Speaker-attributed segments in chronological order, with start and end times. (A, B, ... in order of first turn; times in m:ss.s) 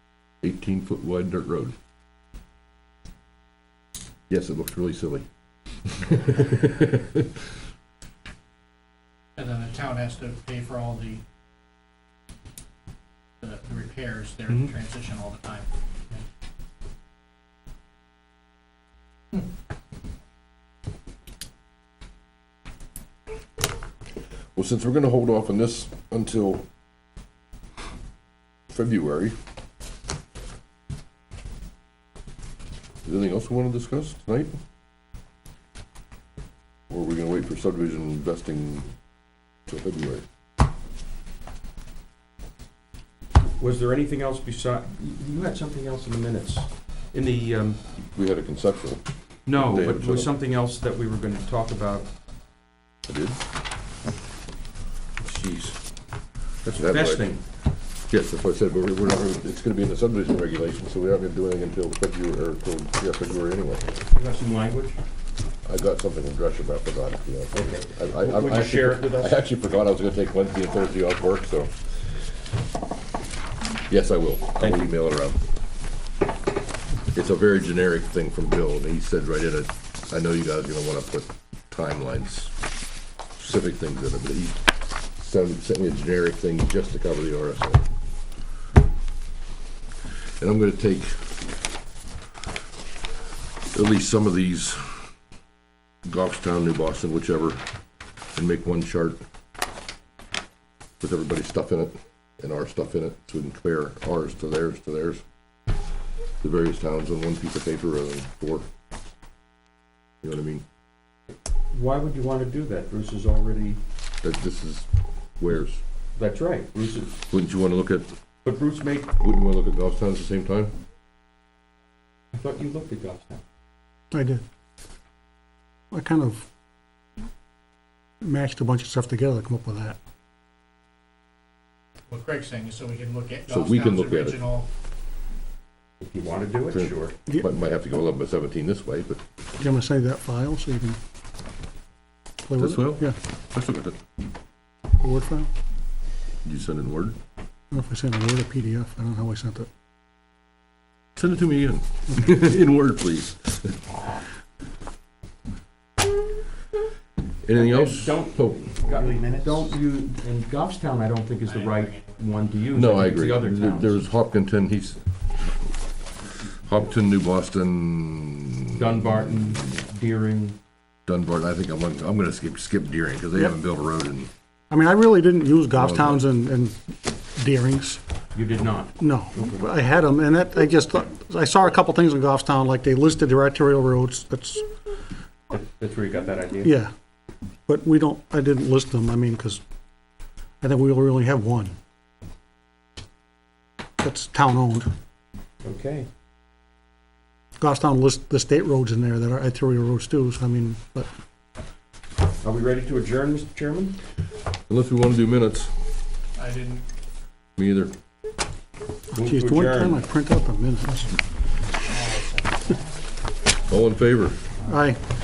0:00.4-0:01.7 A
0:04.3-0:05.3 A
0:05.9-0:07.2 A
0:09.4-0:11.2 B
0:13.4-0:16.2 B
0:24.6-0:26.6 A
0:28.7-0:29.4 A
0:33.0-0:34.6 A
0:36.9-0:38.9 A
0:39.7-0:40.2 A
0:43.6-0:47.8 C
0:48.2-0:50.3 A
0:49.5-0:52.1 C
0:53.1-0:53.4 A
0:55.2-0:55.7 C
0:55.4-0:55.7 A
0:56.6-0:57.3 A
0:56.7-0:57.4 C
0:58.1-1:03.9 A
1:04.1-1:05.0 C
1:05.6-1:11.7 A
1:07.5-1:09.4 C
1:13.9-1:15.4 A
1:14.6-1:14.9 C
1:17.1-1:22.5 A
1:23.4-1:27.8 A
1:30.4-1:31.4 A
1:33.7-1:35.1 A
1:36.0-1:37.6 A
1:38.4-1:39.2 A
1:41.0-1:45.2 A
1:46.4-1:48.7 A
1:50.2-1:50.6 A
1:51.7-1:53.8 C
1:54.2-1:54.9 A
1:55.4-1:55.8 A
1:56.2-1:57.2 C
1:57.3-1:58.1 A
1:58.4-1:59.1 C
1:59.2-2:00.7 A
2:02.3-2:03.4 C
2:04.1-2:04.4 D
2:05.9-2:06.5 D
2:08.2-2:10.0 D
2:12.1-2:14.7 B
2:13.5-2:14.4 A
2:16.0-2:17.2 C
2:16.7-2:19.2 A
2:19.6-2:21.0 D
2:22.5-2:23.2 D
2:22.6-2:24.0 A
2:25.0-2:25.5 D
2:26.4-2:27.2 A
2:27.7-2:29.7 D
2:31.2-2:33.8 A
2:37.4-2:38.7 A
2:37.5-2:44.0 C
2:41.5-2:42.0 B
2:42.7-2:45.0 A
2:46.6-2:49.6 A
2:48.7-2:50.6 C
2:51.1-2:54.3 A
2:54.7-2:56.8 D
2:55.7-2:56.2 A
2:57.4-2:58.0 D
2:58.3-2:59.0 C
2:59.0-3:04.6 D
3:05.5-3:06.7 C
3:06.6-3:06.9 D
3:07.7-3:09.6 D
3:10.6-3:11.8 D
3:14.0-3:14.9 D
3:15.6-3:16.1 C
3:17.6-3:21.1 D
3:22.4-3:24.0 C
3:24.7-3:25.7 A
3:26.4-3:26.8 B
3:27.6-3:27.9 A
3:29.1-3:30.0 C
3:29.2-3:31.1 D
3:31.9-3:32.8 B
3:33.7-3:34.4 A
3:34.7-3:35.0 D